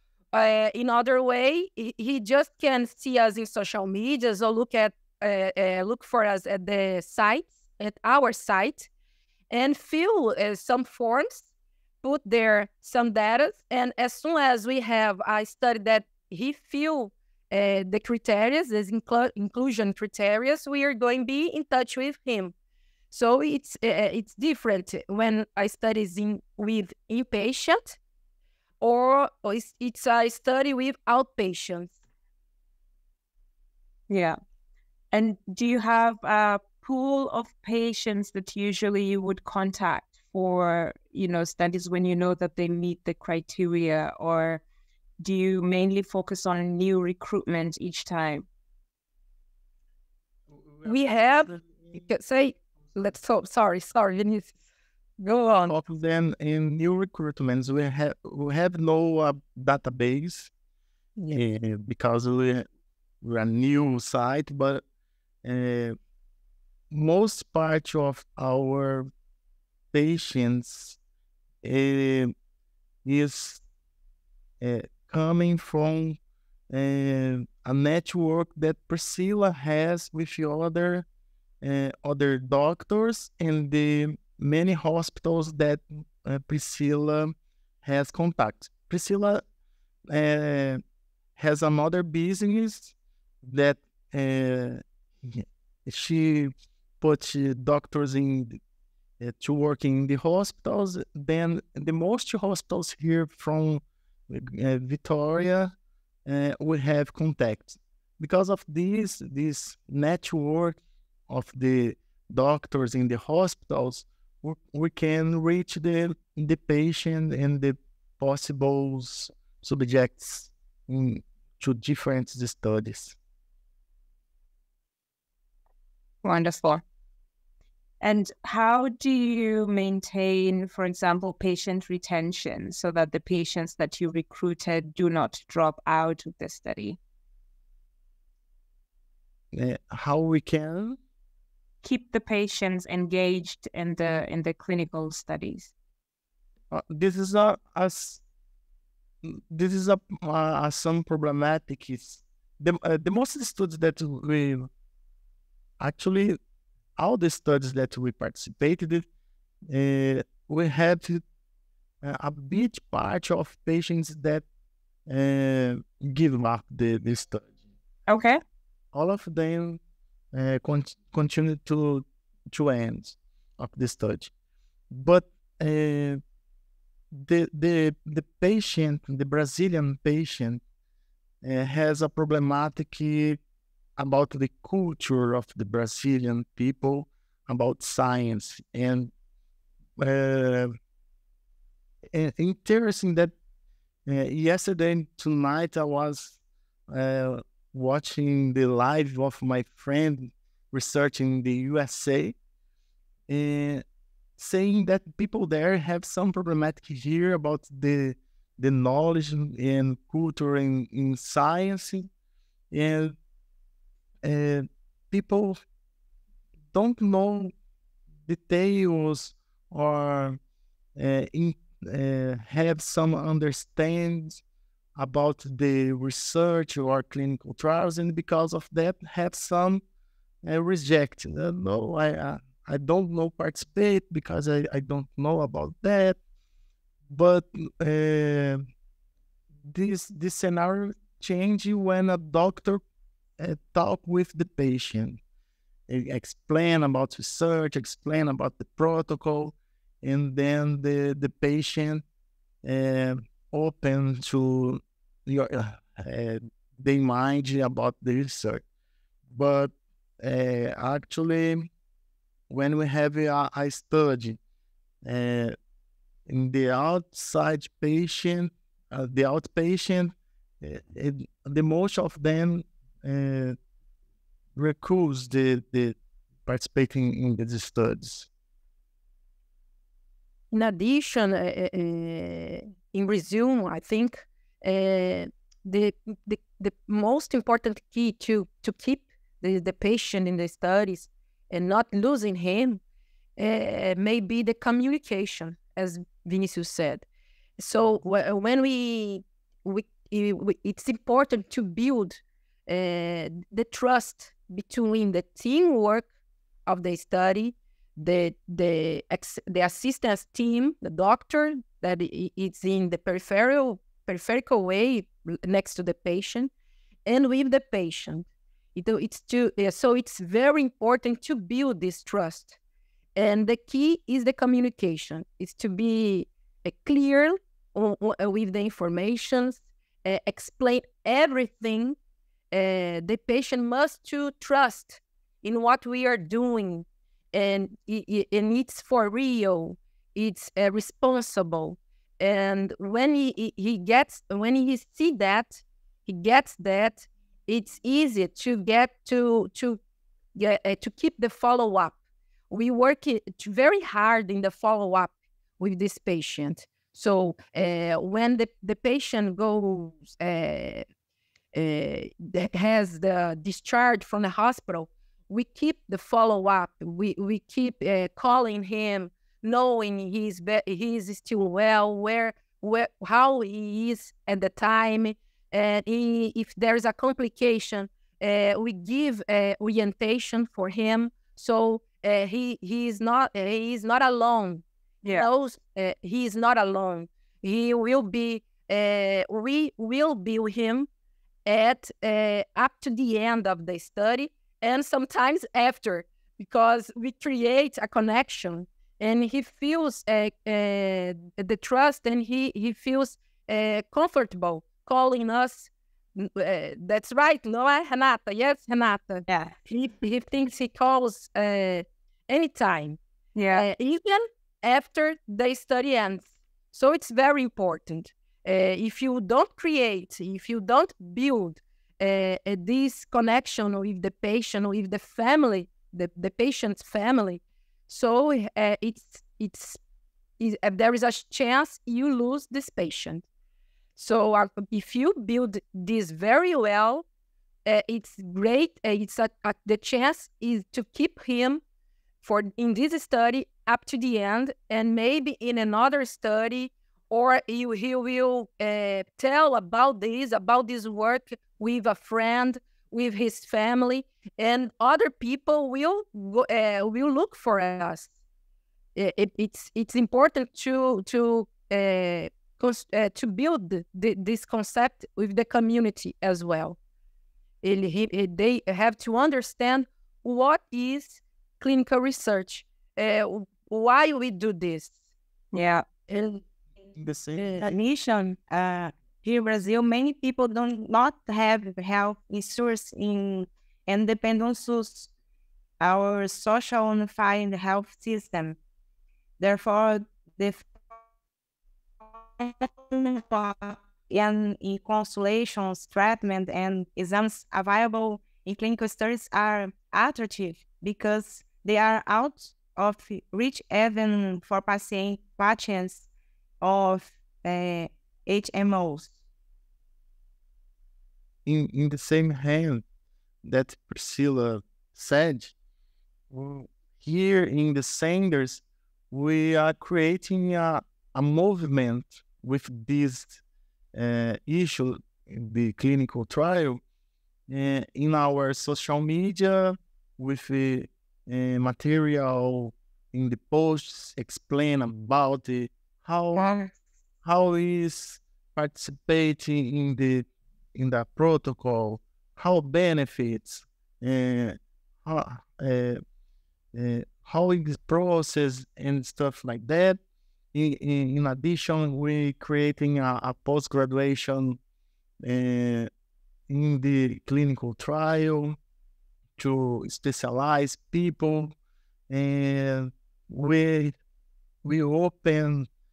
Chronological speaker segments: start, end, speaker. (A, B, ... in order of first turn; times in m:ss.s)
0:00.3-0:08.9 A
0:09.5-0:11.5 A
0:12.0-0:22.5 A
0:23.1-0:28.0 A
0:28.8-0:31.9 A
0:34.1-0:34.4 B
0:35.1-0:44.6 B
0:45.2-0:48.4 B
0:50.5-0:51.9 C
0:50.8-0:54.5 A
0:55.2-0:55.7 A
0:55.7-1:00.5 C
1:01.3-1:02.7 C
1:03.2-1:04.8 C
1:05.4-1:05.9 C
1:06.9-1:09.1 C
1:09.9-1:11.0 C
1:11.6-1:12.3 C
1:13.0-1:13.6 C
1:14.6-1:16.2 C
1:16.7-1:21.0 C
1:21.6-1:29.4 C
1:30.1-1:30.8 C
1:31.4-1:38.6 C
1:39.2-1:45.7 C
1:46.2-2:03.2 C
2:06.2-2:06.8 B
2:08.0-2:17.0 B
2:19.5-2:21.0 C
2:21.8-2:25.7 B
2:26.7-2:28.2 C
2:29.2-2:34.7 C
2:35.8-2:36.4 C
2:37.0-2:39.0 C
2:39.7-2:41.2 C
2:42.0-2:44.4 C
2:45.1-2:47.5 C
2:48.1-2:48.4 B
2:48.9-2:49.8 C
2:50.3-2:54.3 C
2:54.9-2:56.2 C
2:57.1-3:00.6 C
3:01.4-3:03.4 C
3:04.0-3:09.1 C
3:10.0-3:10.7 C
3:12.1-3:13.3 C
3:14.1-3:22.4 C
3:23.3-3:23.8 C
3:24.4-3:32.1 C
3:32.7-3:33.1 C
3:34.2-3:35.6 C
3:36.7-3:37.5 C
3:38.3-3:40.4 C
3:41.0-3:44.4 C
3:45.0-3:49.8 C
3:50.4-3:56.2 C
3:57.1-3:58.6 C
3:59.6-4:02.8 C
4:03.4-4:05.2 C
4:05.9-4:12.0 C
4:12.6-4:18.6 C
4:19.3-4:21.7 C
4:22.5-4:24.4 C
4:25.0-4:25.6 C
4:26.3-4:33.6 C
4:34.6-4:38.3 C
4:40.5-4:52.8 A
4:53.4-4:57.0 A
4:57.6-5:06.1 A
5:06.7-5:16.5 A
5:17.0-5:22.6 A
5:23.2-5:32.0 A
5:32.5-5:49.8 A
5:50.3-5:51.9 A
5:52.5-6:00.8 A
6:01.5-6:24.6 A
6:25.1-6:30.9 A
6:31.4-6:53.0 A
6:53.3-6:53.6 B
6:53.5-7:09.8 A
7:10.4-7:13.2 A
7:14.0-7:17.0 A
7:17.6-7:21.6 A
7:22.2-7:38.1 A
7:38.9-7:46.8 A
7:47.6-7:54.9 A
7:55.5-7:55.8 B
7:56.1-7:56.4 A
7:57.0-7:57.6 C
7:57.4-7:57.6 A
7:57.6-8:05.1 D
8:05.8-8:08.6 D
8:09.4-8:10.7 D
8:12.3-8:26.1 D
8:26.6-8:29.1 D
8:31.4-8:32.8 C
8:33.4-8:35.5 C
8:36.3-8:43.4 C
8:43.9-8:46.8 C
8:47.5-8:56.4 C
8:57.2-9:06.0 C
9:06.7-9:10.0 C
9:10.5-9:14.6 C
9:15.2-9:15.9 C
9:16.5-9:18.6 C
9:19.4-9:21.5 C
9:22.1-9:24.0 C
9:24.6-9:25.7 C